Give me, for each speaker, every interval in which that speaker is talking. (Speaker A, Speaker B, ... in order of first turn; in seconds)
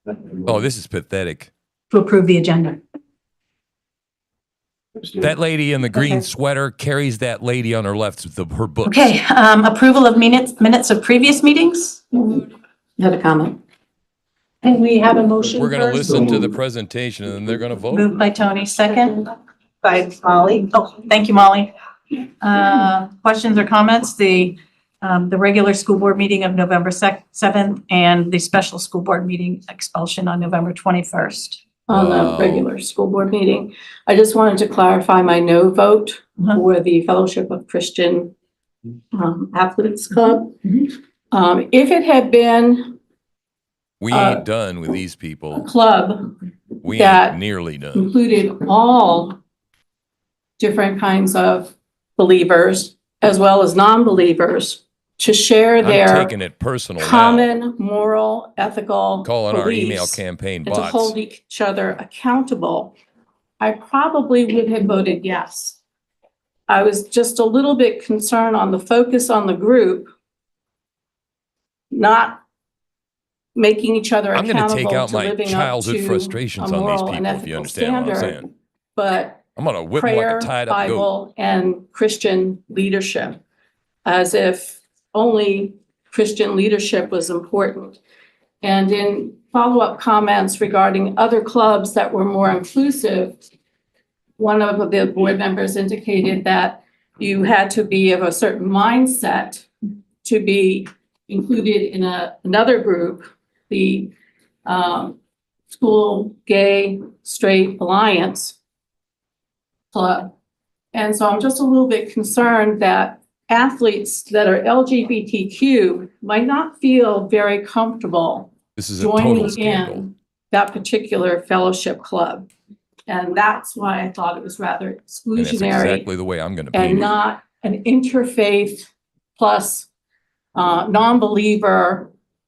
Speaker A: 0.5-1.5, 5.2-9.2, 15.6-18.1, 31.9-32.7, 44.0-45.7, 46.8-48.1, 55.8-57.5, 59.2-61.1, 74.3-78.4, 79.6-81.1, 118.8-120.0, 125.3-127.1
Speaker B: 1.9-2.8, 5.9-6.2, 8.8-12.3, 14.6-16.3, 17.9-19.2, 20.3-21.7, 22.4-31.6
Speaker C: 13.0-13.6, 31.9-38.3, 39.1-40.8, 41.3-43.0, 44.1-44.4, 45.5-46.3, 47.0-47.4, 48.0-49.4, 50.6-56.3, 57.0-62.9, 63.6-65.8, 66.7-70.1, 71.9-72.4, 73.5-79.4, 80.0-83.4, 84.0-88.0, 88.6-93.5, 94.4-99.7, 100.2-104.1, 104.7-105.2, 105.7-108.5, 109.9-110.3, 110.9-122.5, 123.1-126.1, 126.7-129.9, 130.5-132.1